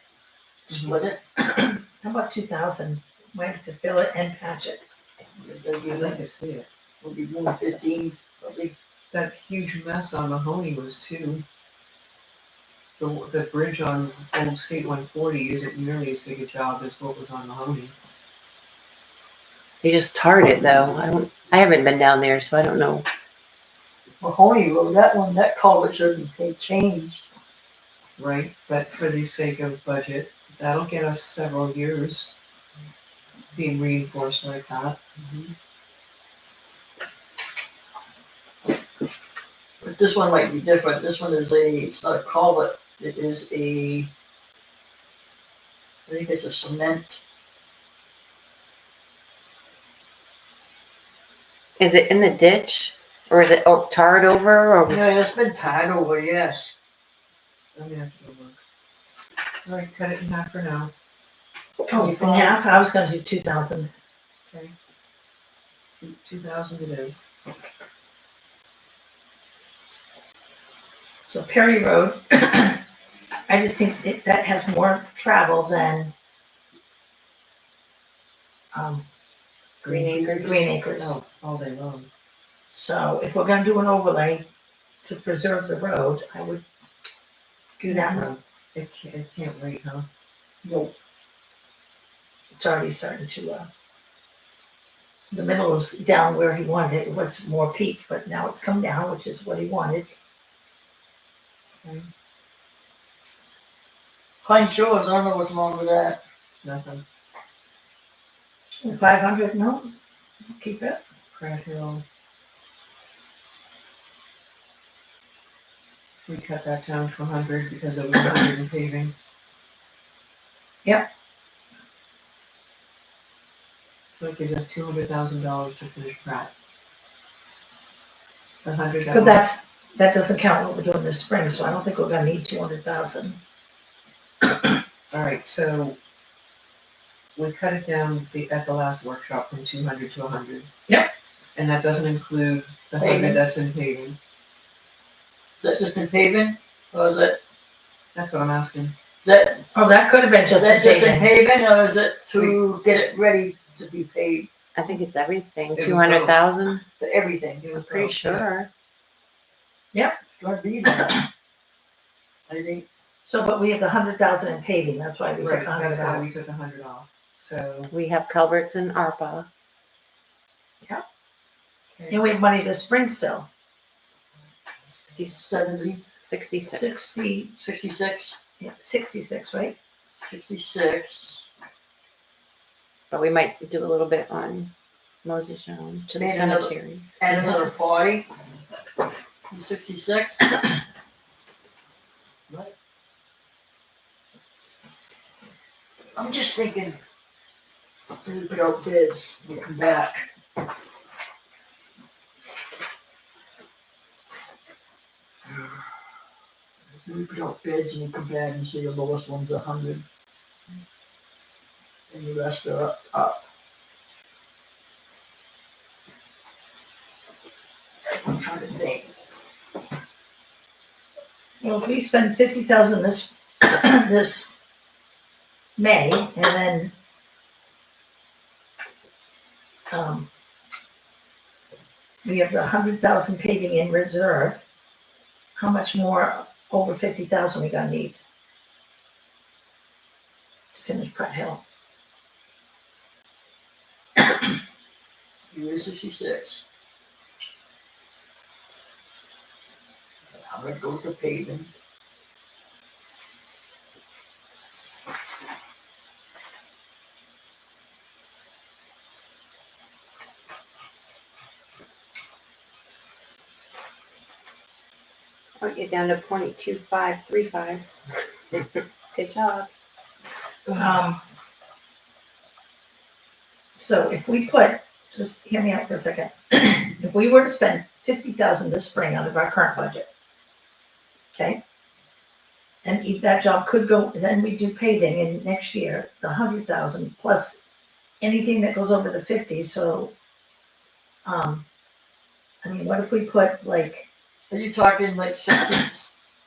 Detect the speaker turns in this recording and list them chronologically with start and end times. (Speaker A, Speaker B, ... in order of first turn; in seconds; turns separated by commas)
Speaker A: 0.7-1.2, Speaker B: 0.7-1.0, Speaker C: 1.4-4.8, Speaker A: 5.4-6.2, Speaker B: 5.8-6.7, Speaker A: 7.0-8.8, Speaker B: 9.1-11.4, Speaker B: 13.0-17.9, Speaker D: 19.8-23.1, Speaker A: 24.2-27.3, Speaker B: 28.2-32.3, Speaker B: 33.5-35.5, Speaker A: 39.8-44.1, Speaker A: 46.1-47.2, Speaker D: 51.8-55.1, Speaker A: 54.9-56.7, Speaker B: 57.8-58.6, Speaker B: 59.6-60.9, Speaker A: 61.9-62.8, Speaker C: 61.9-63.9, Speaker B: 64.5-64.7, Speaker B: 65.9-67.2, Speaker C: 71.2-72.8, Speaker C: 73.5-76.1, Speaker C: 78.7-79.1, Speaker D: 79.8-80.6, Speaker B: 79.8-82.1, Speaker C: 80.4-81.2, Speaker C: 82.7-84.5, Speaker C: 85.0-86.6, Speaker C: 87.8-88.3, Speaker B: 87.9-90.1, Speaker A: 90.6-90.9, Speaker C: 92.5-93.7, Speaker C: 95.3-100.1, Speaker B: 101.8-102.1, Speaker A: 104.4-106.2, Speaker B: 106.6-107.0, Speaker C: 108.8-109.9, Speaker C: 110.5-111.0, Speaker B: 111.3-112.0, Speaker B: 116.2-119.1, Speaker B: 124.1-126.5, Speaker B: 128.6-129.4, Speaker C: 129.1-133.4, Speaker B: 135.1-136.0, Speaker B: 137.4-140.7, Speaker B: 141.6-144.2, Speaker A: 143.0-143.4, Speaker A: 145.6-147.4, Speaker B: 148.1-148.9, Speaker A: 149.2-149.7, Speaker C: 149.7-151.3, Speaker A: 150.5-154.5, Speaker D: 154.8-156.9, Speaker B: 155.8-156.4, Speaker A: 157.0-157.7, Speaker B: 157.6-158.5, Speaker D: 157.7-158.7, Speaker A: 160.3-161.2, Speaker A: 162.5-162.9, Speaker C: 163.2-166.3, Speaker B: 165.4-167.9, Speaker D: 167.9-169.5, Speaker C: 172.1-173.5, Speaker D: 174.8-177.2, Speaker A: 175.3-176.1, Speaker C: 176.7-177.6, Speaker A: 177.6-178.4, Speaker C: 178.6-179.8, Speaker A: 180.2-181.5, Speaker D: 183.1-184.7, Speaker D: 185.2-187.1, Speaker A: 186.2-188.3, Speaker A: 189.5-190.5, Speaker A: 196.2-197.0, Speaker A: 198.1-200.3, Speaker A: 205.5-205.8, Speaker A: 207.0-210.1, Speaker A: 212.1-213.4, Speaker A: 218.1-219.1, Speaker C: 221.6-224.5, Speaker C: 225.8-226.9, Speaker C: 229.9-230.3, Speaker C: 232.2-234.6, Speaker C: 235.6-238.2, Speaker C: 240.7-241.6, Speaker A: 245.5-246.6, Speaker A: 250.3-251.7, Speaker D: 265.6-267.9, Speaker D: 268.5-269.7, Speaker C: 270.8-271.2, Speaker C: 273.8-280.1, Speaker C: 281.4-281.6, Speaker C: 282.8-287.6, Speaker C: 288.2-290.1, Speaker C: 291.2-291.6, Speaker C: 292.6-294.1, Speaker A: 294.5-296.1